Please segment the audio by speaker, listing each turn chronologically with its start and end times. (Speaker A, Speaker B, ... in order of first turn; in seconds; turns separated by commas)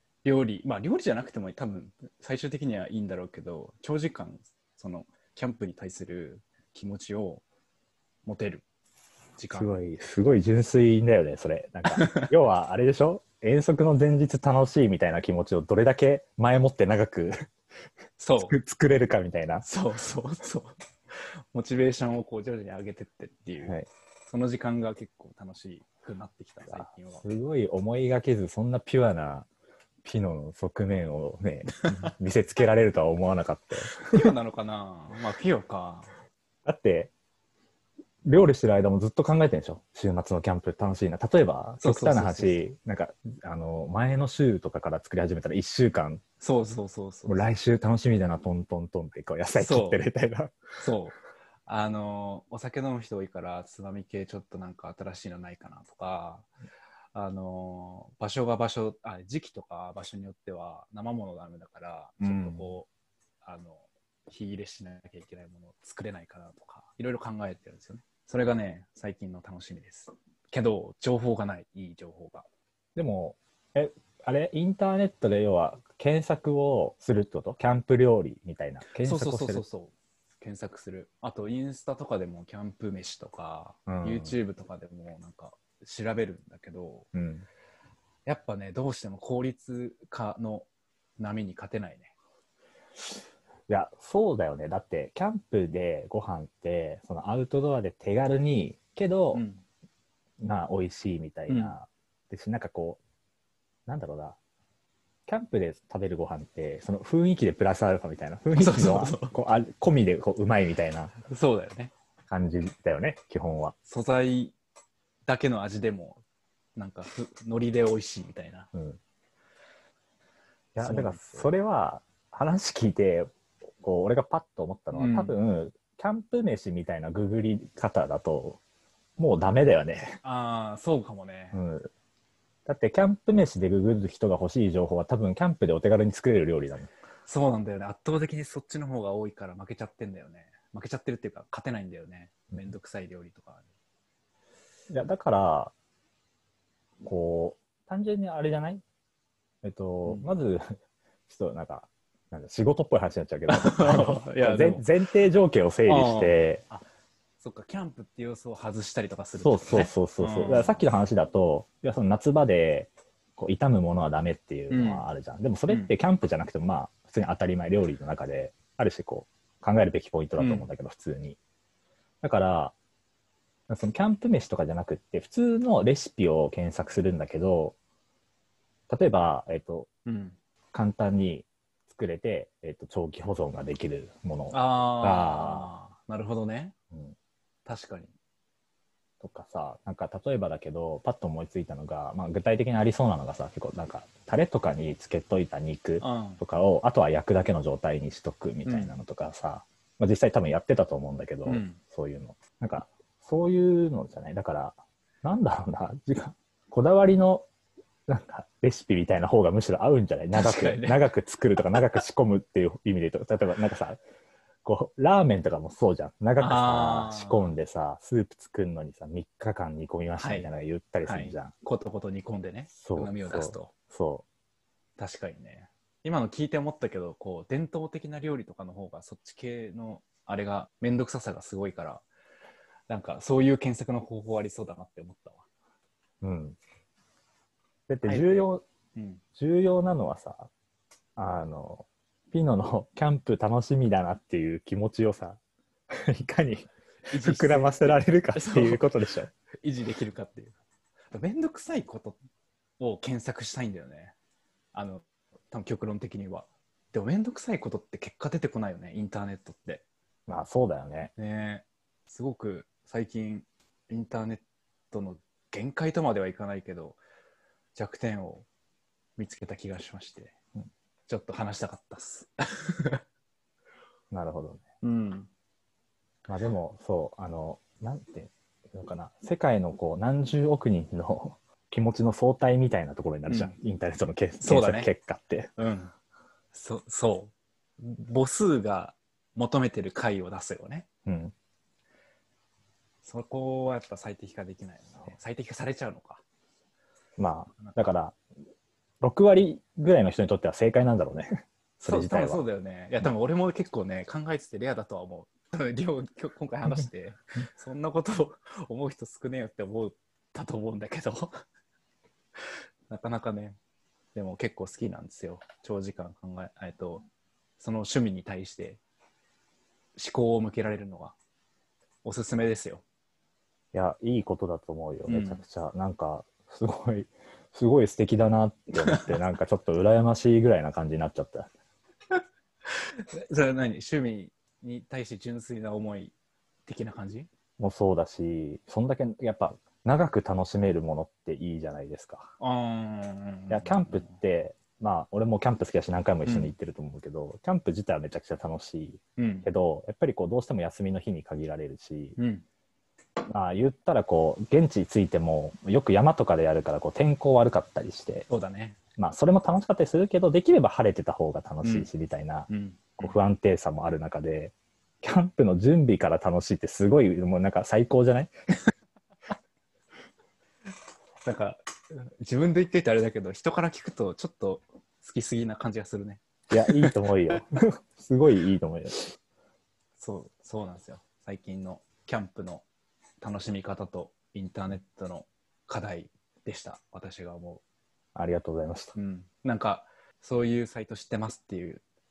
Speaker A: 0.2-7.4, Speaker A: 8.2-8.7, Speaker A: 9.4-9.8, Speaker B: 9.5-17.4, Speaker A: 11.9-12.3, Speaker A: 18.2-18.5, Speaker B: 18.4-19.6, Speaker A: 19.6-23.8, Speaker B: 23.6-23.9, Speaker A: 24.3-27.3, Speaker B: 26.7-29.5, Speaker B: 30.0-34.3, Speaker A: 34.0-36.1, Speaker B: 36.6-37.1, Speaker B: 38.2-46.2, Speaker A: 41.8-42.6, Speaker A: 46.4-47.5, Speaker B: 47.3-50.7, Speaker A: 49.5-50.0, Speaker A: 50.8-56.5, Speaker A: 57.1-62.9, Speaker B: 62.2-62.7, Speaker A: 63.4-72.5, Speaker B: 72.9-79.6, Speaker A: 78.9-87.1, Speaker B: 83.9-84.3, Speaker B: 87.1-87.5, Speaker A: 88.2-92.1, Speaker B: 93.7-99.4, Speaker A: 99.3-99.6, Speaker B: 100.4-103.0, Speaker A: 101.5-101.8, Speaker B: 103.9-104.4, Speaker B: 105.3-111.1, Speaker A: 108.5-109.3, Speaker A: 111.2-111.9, Speaker B: 112.3-113.7, Speaker A: 113.8-114.5, Speaker A: 115.2-116.2, Speaker A: 116.8-118.7, Speaker B: 118.7-119.0, Speaker B: 120.8-123.3, Speaker A: 120.8-121.5, Speaker B: 123.8-128.6, Speaker A: 124.9-125.3, Speaker B: 129.2-130.2, Speaker A: 130.2-131.6, Speaker B: 131.5-131.9, Speaker B: 132.7-136.9, Speaker A: 137.2-143.7, Speaker B: 144.9-145.7, Speaker B: 147.0-148.8, Speaker B: 149.6-150.8, Speaker A: 150.0-150.3, Speaker B: 151.3-156.6, Speaker A: 153.5-154.9, Speaker A: 155.9-156.8, Speaker A: 157.4-160.8, Speaker B: 159.4-171.4, Speaker A: 164.7-165.1, Speaker A: 170.4-170.7, Speaker B: 172.2-172.7, Speaker B: 173.7-177.8, Speaker B: 178.9-179.9, Speaker A: 180.1-180.4, Speaker B: 180.7-185.7, Speaker A: 184.5-186.7, Speaker A: 187.7-188.1, Speaker B: 189.2-207.5, Speaker A: 196.0-196.4, Speaker A: 198.7-199.0, Speaker A: 201.4-201.8, Speaker B: 208.1-214.0, Speaker A: 210.3-211.1, Speaker B: 214.6-221.5, Speaker A: 216.4-217.5, Speaker A: 220.2-220.5, Speaker A: 221.0-223.7, Speaker B: 222.8-224.2, Speaker A: 225.0-232.0, Speaker A: 232.9-235.4, Speaker B: 236.2-236.6, Speaker B: 237.9-238.6, Speaker A: 238.0-239.2, Speaker B: 239.3-240.5, Speaker B: 241.2-245.4, Speaker B: 245.9-249.3, Speaker A: 247.1-248.8, Speaker A: 249.6-250.5, Speaker A: 251.1-252.2, Speaker A: 252.8-254.1, Speaker A: 254.7-259.8, Speaker B: 260.3-261.1, Speaker A: 261.2-267.0, Speaker A: 267.7-268.5, Speaker A: 269.2-270.3, Speaker A: 271.1-273.0, Speaker B: 274.1-274.6, Speaker A: 274.8-275.3, Speaker B: 276.3-285.5, Speaker A: 283.3-283.5, Speaker A: 284.4-284.9, Speaker A: 285.6-285.9, Speaker A: 286.5-290.9, Speaker B: 291.1-291.3, Speaker A: 293.0-296.2, Speaker B: 297.2-298.2, Speaker B: 299.0-302.4, Speaker A: 301.8-311.4, Speaker A: 312.9-313.6, Speaker A: 314.1-317.1, Speaker A: 317.6-318.8, Speaker A: 319.9-321.1, Speaker A: 322.0-322.8, Speaker B: 323.7-331.5, Speaker A: 325.1-325.4, Speaker A: 328.9-329.2, Speaker A: 332.7-336.1, Speaker A: 336.6-337.3, Speaker B: 337.6-342.3, Speaker A: 342.4-344.1, Speaker B: 343.5-352.2, Speaker A: 346.2-346.5, Speaker A: 349.2-349.5, Speaker A: 352.2-352.4, Speaker B: 353.3-358.3, Speaker A: 358.3-358.8, Speaker B: 359.0-368.3, Speaker A: 361.6-361.9, Speaker A: 362.5-363.1, Speaker A: 371.2-376.9, Speaker B: 376.5-379.1, Speaker A: 380.0-382.6, Speaker A: 383.2-387.6, Speaker B: 388.1-388.9, Speaker A: 388.9-391.8